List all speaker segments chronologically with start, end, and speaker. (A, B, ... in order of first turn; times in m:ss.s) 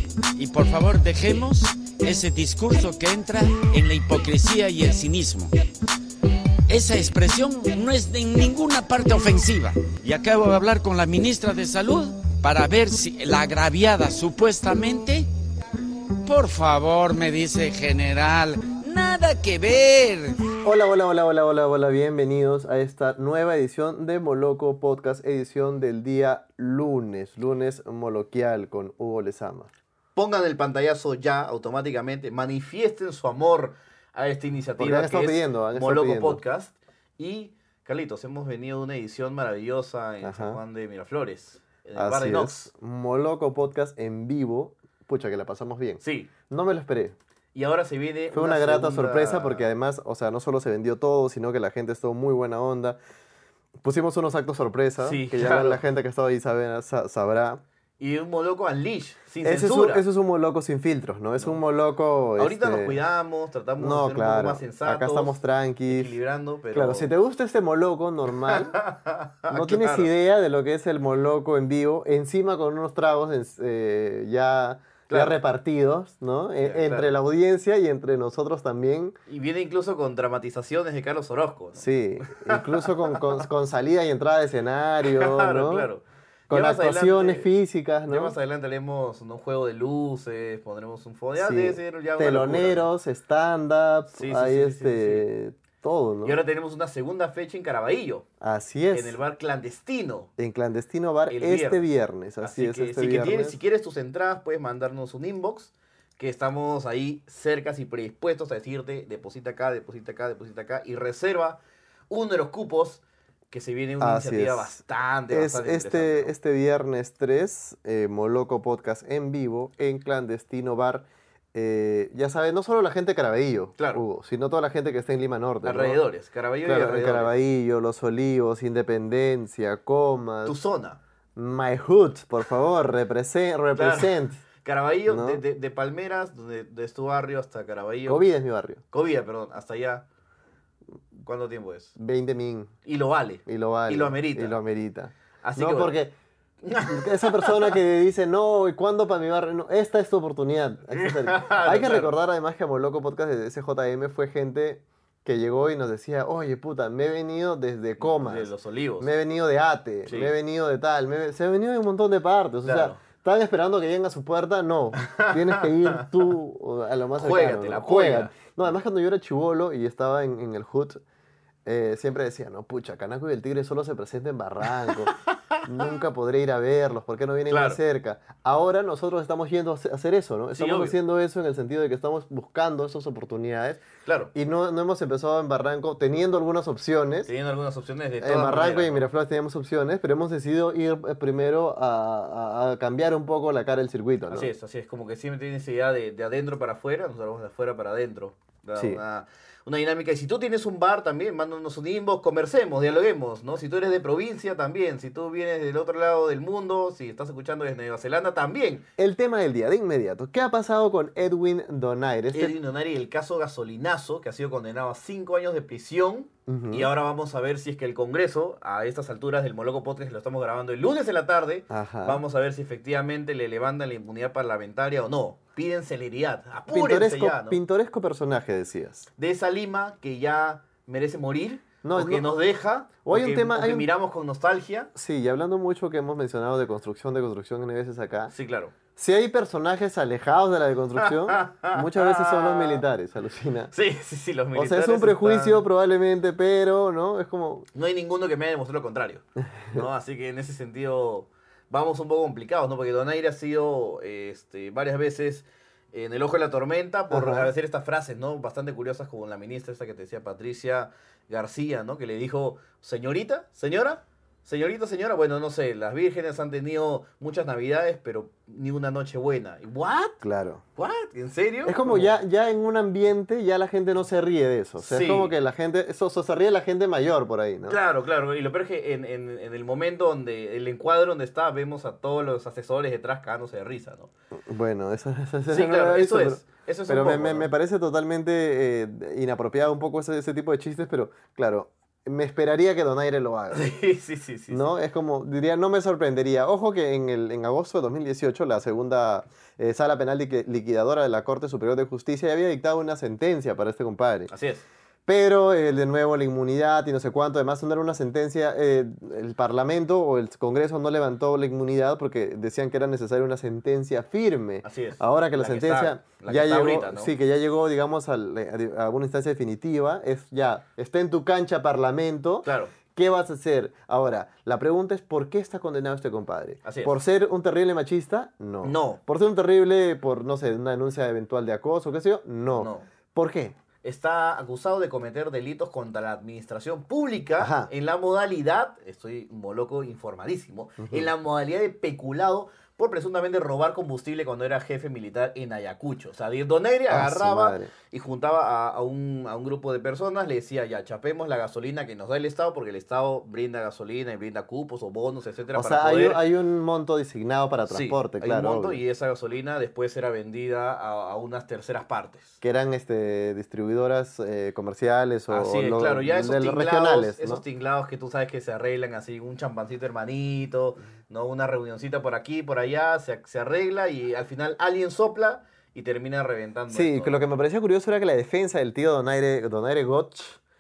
0:00.4-0:05.5 A
0:06.7-0:15.3 A
0:16.2-0:20.4 A
0:20.6-0:29.7 B
0:30.2-0:42.7 C
0:34.8-0:36.4 B
0:40.2-0:40.6 B
0:42.0-0:47.2 B
0:46.0-0:46.3 C
0:47.5-0:49.7 C
0:48.3-0:53.0 B
0:53.8-0:57.6 B
0:55.0-0:55.8 C
0:58.0-1:00.0 C
0:59.4-1:03.0 B
1:02.4-1:07.1 C
1:03.8-1:06.2 B
1:06.7-1:08.8 B
1:08.4-1:10.1 C
1:09.5-1:19.2 B
1:15.1-1:15.4 C
1:16.6-1:17.2 C
1:19.3-1:23.4 C
1:21.8-1:25.9 B
1:25.0-1:27.5 C
1:26.5-1:28.4 B
1:28.1-1:32.9 C
1:31.4-1:36.4 B
1:34.1-1:35.3 C
1:36.2-1:38.2 C
1:38.4-1:39.2 B
1:38.9-1:40.3 C
1:40.4-1:43.6 B
1:41.3-1:41.8 C
1:42.4-1:56.3 C
1:54.0-2:06.0 B
2:03.8-2:04.0 C
2:05.6-2:07.3 C
2:06.6-2:10.6 B
2:10.4-2:11.0 C
2:11.4-2:14.4 B
2:13.8-2:18.3 C
2:15.1-2:15.4 B
2:18.1-2:18.8 B
2:18.9-2:20.0 C
2:21.2-2:21.9 C
2:22.0-2:22.7 B
2:22.8-2:24.6 C
2:23.5-2:26.1 B
2:25.4-2:26.0 C
2:26.6-2:27.8 C
2:26.9-2:51.0 B
2:31.0-2:32.1 C
2:38.0-2:39.1 C
2:40.1-2:40.3 C
2:42.6-2:43.0 C
2:45.0-2:46.3 C
2:47.2-2:48.4 C
2:51.6-3:03.8 B
2:54.9-2:56.0 C
2:57.5-2:57.8 C
3:00.5-3:01.0 C
3:04.0-3:04.3 C
3:04.3-3:07.3 B
3:07.3-3:09.1 C
3:08.2-3:14.5 B
3:14.3-3:28.8 C
3:29.0-3:32.6 B
3:32.3-3:47.6 C
3:36.5-3:36.9 B
3:41.7-3:42.2 B
3:46.7-3:49.1 B
3:49.2-3:54.9 C
3:51.8-3:52.3 B
3:53.0-3:53.9 B
3:55.0-3:58.3 B
3:58.3-3:58.7 C
3:59.0-4:03.7 B
4:01.0-4:02.8 C
4:03.7-4:05.6 C
4:04.5-4:07.7 B
4:07.7-4:30.2 C
4:17.1-4:17.5 B
4:30.2-4:30.6 B
4:30.8-4:32.2 C
4:31.6-4:37.8 B
4:34.8-4:35.3 C
4:37.7-4:44.1 C
4:44.5-4:53.6 B
4:45.5-4:47.5 C
4:53.5-4:54.7 C
4:54.5-5:04.3 B
5:04.3-5:04.6 C
5:05.1-5:33.6 B
5:14.6-5:17.1 C
5:22.4-5:22.7 C
5:26.6-5:27.0 C
5:28.6-5:29.0 C
5:32.5-5:32.9 C
5:33.8-5:56.2 C
5:37.4-5:37.7 B
5:40.8-5:41.1 B
5:46.9-5:47.7 B
5:55.5-5:58.8 B
5:57.7-6:02.4 C
6:02.4-6:07.4 B
6:05.3-6:17.2 C
6:16.7-6:20.4 B